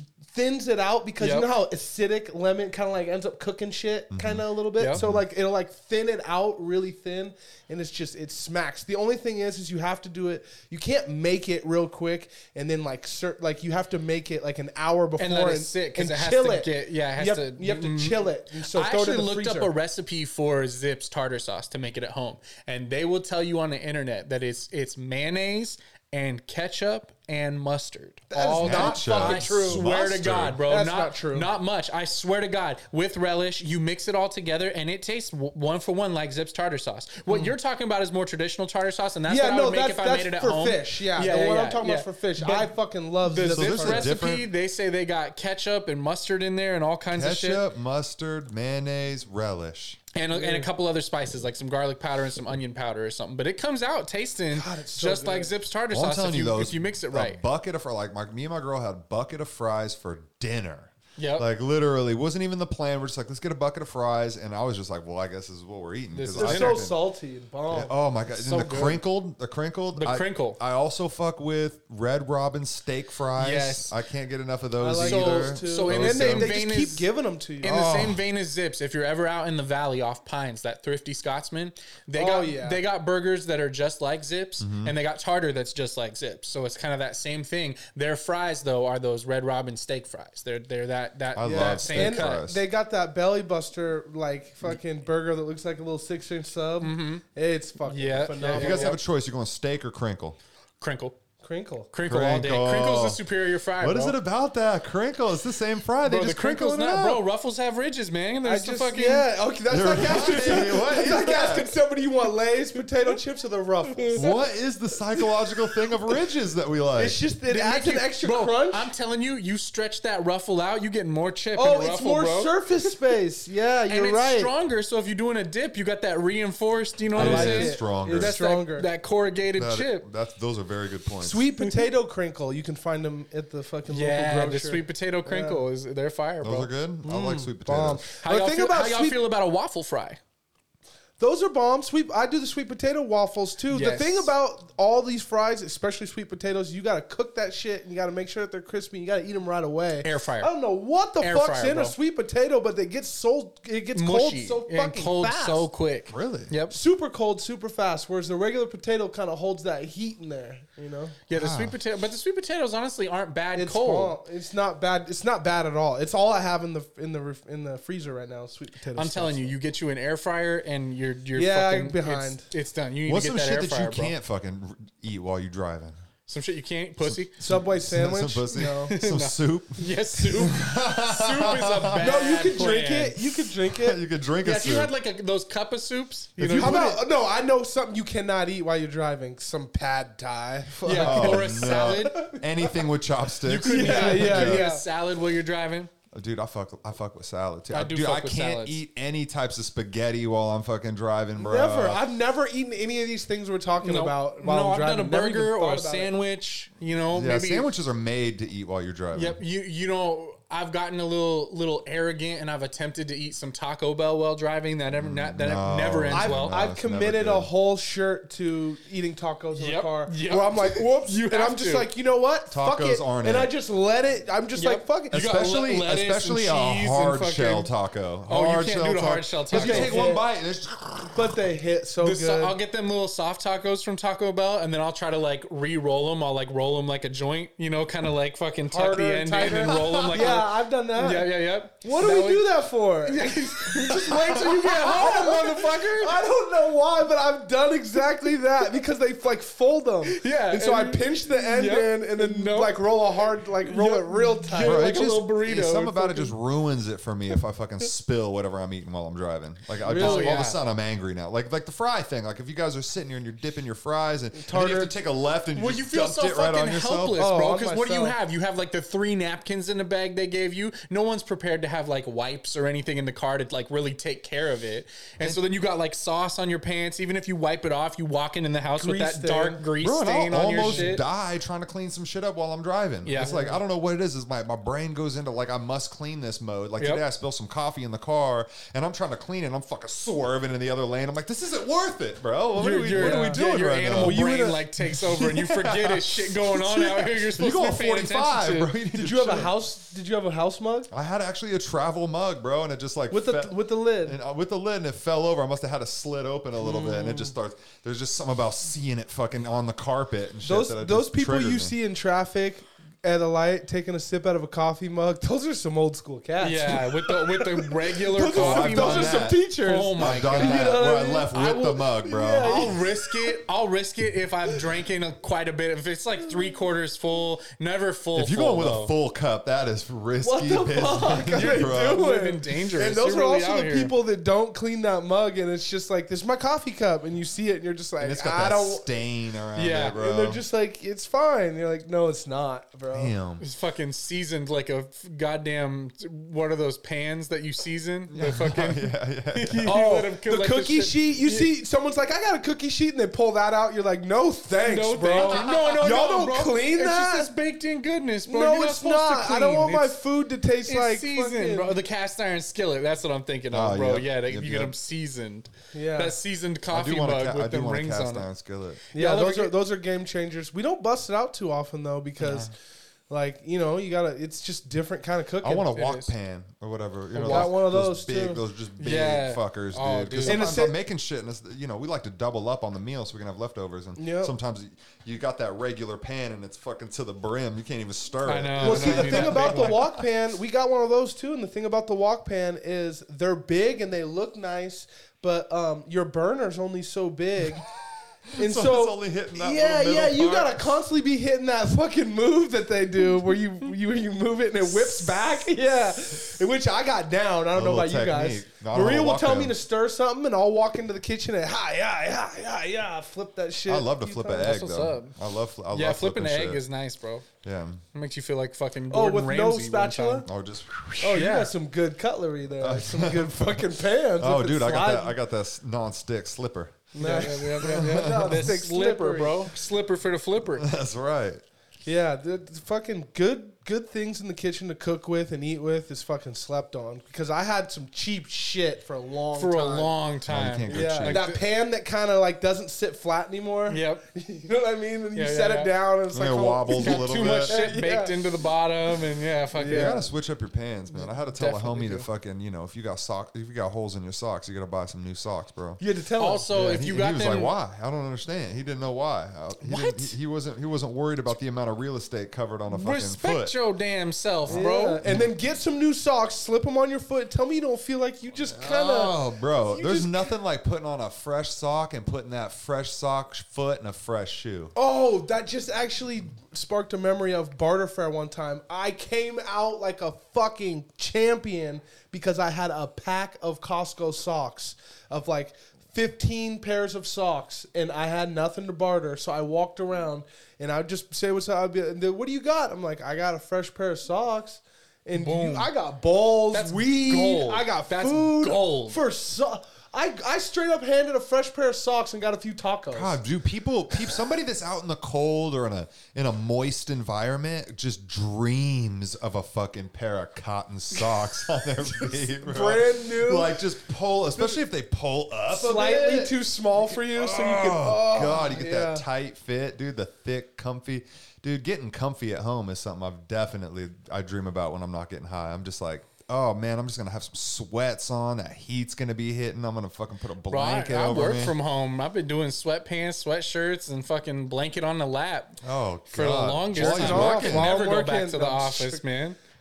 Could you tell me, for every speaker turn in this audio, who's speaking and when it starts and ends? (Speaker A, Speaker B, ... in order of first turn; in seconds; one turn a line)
Speaker A: 0.2-19.7
Speaker B: 1.2-1.5
Speaker C: 4.1-5.3
Speaker B: 15.2-47.6
Speaker A: 28.3-29.9
Speaker C: 28.6-30.6
Speaker A: 30.6-31.5
Speaker A: 39.3-44.1
Speaker C: 43.5-44.5
Speaker C: 47.1-50.0
Speaker B: 50.1-57.4
Speaker A: 50.3-50.7
Speaker A: 54.5-55.5
Speaker C: 55.9-67.0
Speaker B: 61.2-61.5
Speaker B: 66.1-66.8
Speaker A: 66.4-67.9
Speaker C: 67.7-76.6
Speaker B: 68.3-69.0
Speaker B: 69.9-70.6
Speaker B: 73.4-73.9
Speaker A: 74.8-77.9
Speaker B: 75.0-77.1
Speaker B: 77.6-92.4
Speaker C: 77.6-78.2
Speaker A: 82.2-82.8
Speaker C: 84.6-84.9
Speaker C: 91.3-92.6
Speaker A: 91.4-99.0
Speaker B: 96.8-97.2
Speaker B: 97.9-99.0
Speaker C: 98.5-100.4
Speaker B: 100.8-101.2
Speaker A: 101.4-101.9
Speaker B: 101.9-104.2
Speaker C: 102.0-103.2
Speaker C: 103.8-107.2
Speaker B: 106.0-109.3
Speaker A: 108.4-114.3
Speaker C: 109.7-111.7
Speaker C: 114.2-117.2
Speaker A: 117.0-118.9
Speaker B: 117.5-122.5
Speaker A: 121.6-124.5
Speaker B: 123.9-130.1
Speaker C: 127.1-128.4
Speaker A: 127.1-128.9
Speaker C: 129.6-131.5
Speaker A: 131.2-135.6
Speaker B: 133.9-136.7
Speaker C: 136.4-138.1
Speaker A: 137.0-139.2
Speaker B: 138.2-140.2
Speaker A: 141.2-155.7
Speaker B: 143.7-144.3
Speaker B: 150.0-150.5
Speaker B: 151.2-152.0
Speaker B: 153.9-156.8
Speaker C: 156.1-156.5
Speaker A: 156.7-161.2
Speaker B: 161.3-164.2
Speaker C: 161.3-161.8
Speaker A: 163.6-169.6
Speaker B: 168.9-174.1
Speaker A: 171.3-172.4
Speaker C: 173.1-176.0
Speaker B: 176.3-177.4
Speaker C: 177.0-182.7
Speaker A: 177.4-179.0
Speaker B: 178.9-183.2
Speaker A: 182.0-184.0
Speaker C: 183.5-184.9
Speaker B: 184.4-186.9
Speaker C: 186.4-187.0
Speaker A: 186.5-192.8
Speaker B: 190.8-192.2
Speaker C: 190.9-194.7
Speaker B: 193.4-195.9
Speaker A: 193.6-194.8
Speaker C: 196.1-202.0
Speaker B: 197.7-198.8
Speaker A: 201.4-206.1
Speaker B: 203.8-207.7
Speaker C: 207.1-209.4
Speaker B: 209.1-216.6
Speaker C: 214.9-217.5
Speaker A: 216.1-225.3
Speaker B: 219.6-221.9
Speaker C: 222.5-223.5
Speaker B: 224.6-227.7
Speaker C: 225.1-231.4
Speaker B: 228.3-230.0
Speaker A: 229.5-230.2
Speaker A: 231.1-232.6
Speaker B: 232.0-242.5
Speaker A: 238.7-255.0
Speaker C: 239.6-240.4
Speaker B: 243.0-246.2
Speaker B: 250.1-252.8
Speaker B: 253.6-256.3
Speaker C: 254.6-267.2
Speaker A: 259.8-260.4
Speaker B: 259.9-260.6
Speaker A: 264.4-264.9
Speaker B: 265.6-281.0
Speaker A: 267.1-268.2
Speaker A: 278.8-279.6
Speaker C: 279.8-294.2
Speaker A: 280.7-281.0
Speaker B: 283.1-283.6
Speaker A: 283.2-283.5
Speaker B: 292.6-298.7
Speaker A: 292.9-294.6
Speaker C: 295.1-299.6
Speaker A: 298.9-300.9
Speaker C: 300.9-311.8
Speaker A: 303.1-304.2
Speaker A: 306.6-307.3
Speaker A: 310.4-321.3
Speaker B: 316.4-328.9
Speaker C: 318.3-319.4
Speaker C: 320.0-322.8
Speaker A: 322.0-323.4
Speaker C: 328.1-332.1
Speaker A: 330.2-338.9
Speaker B: 331.2-333.9
Speaker C: 338.0-340.4
Speaker B: 339.6-340.0
Speaker A: 339.9-343.1
Speaker C: 342.9-343.4
Speaker B: 343.4-351.5
Speaker C: 348.1-349.7
Speaker A: 349.6-357.3
Speaker B: 354.6-360.0
Speaker C: 355.2-355.9
Speaker A: 358.3-361.8
Speaker B: 360.6-368.3
Speaker C: 363.5-364.7
Speaker A: 365.7-366.2
Speaker C: 366.7-368.8
Speaker B: 368.9-369.5
Speaker A: 368.9-372.5
Speaker B: 372.2-372.5
Speaker A: 373.1-375.6
Speaker C: 375.4-389.9
Speaker B: 375.5-376.1
Speaker B: 377.1-377.5
Speaker A: 377.2-378.4
Speaker B: 378.8-380.7
Speaker A: 380.2-380.7
Speaker A: 384.0-384.3
Speaker B: 388.2-389.9
Speaker A: 388.6-397.6
Speaker A: 398.4-414.6
Speaker C: 398.4-400.8
Speaker C: 407.5-409.6
Speaker C: 413.7-416.6
Speaker B: 414.4-415.1
Speaker B: 415.7-417.3
Speaker C: 417.4-417.8
Speaker B: 417.9-420.2
Speaker A: 418.9-420.3
Speaker C: 420.3-421.3
Speaker A: 421.0-425.2
Speaker B: 421.1-421.5
Speaker C: 422.6-428.5
Speaker A: 426.9-429.5
Speaker B: 427.0-430.7
Speaker C: 430.6-431.4
Speaker A: 431.9-439.9
Speaker B: 439.4-441.4
Speaker C: 440.3-441.2
Speaker A: 440.7-448.2
Speaker B: 443.7-444.0
Speaker B: 445.1-445.7
Speaker C: 446.1-447.6
Speaker B: 446.7-450.0
Speaker A: 449.5-450.1
Speaker C: 449.7-455.8
Speaker B: 451.4-452.1
Speaker A: 455.8-456.5
Speaker B: 456.2-457.5
Speaker C: 456.5-463.6
Speaker B: 459.6-460.1
Speaker B: 462.7-465.0
Speaker C: 464.5-465.3
Speaker A: 464.5-469.2
Speaker C: 468.5-474.7
Speaker A: 469.7-470.3
Speaker A: 474.8-503.2
Speaker B: 495.2-495.7
Speaker B: 496.5-499.0
Speaker C: 502.9-531.6
Speaker A: 512.2-513.6
Speaker A: 514.3-514.6
Speaker A: 515.5-519.0
Speaker B: 530.5-539.4
Speaker C: 535.6-537.8
Speaker A: 536.8-539.0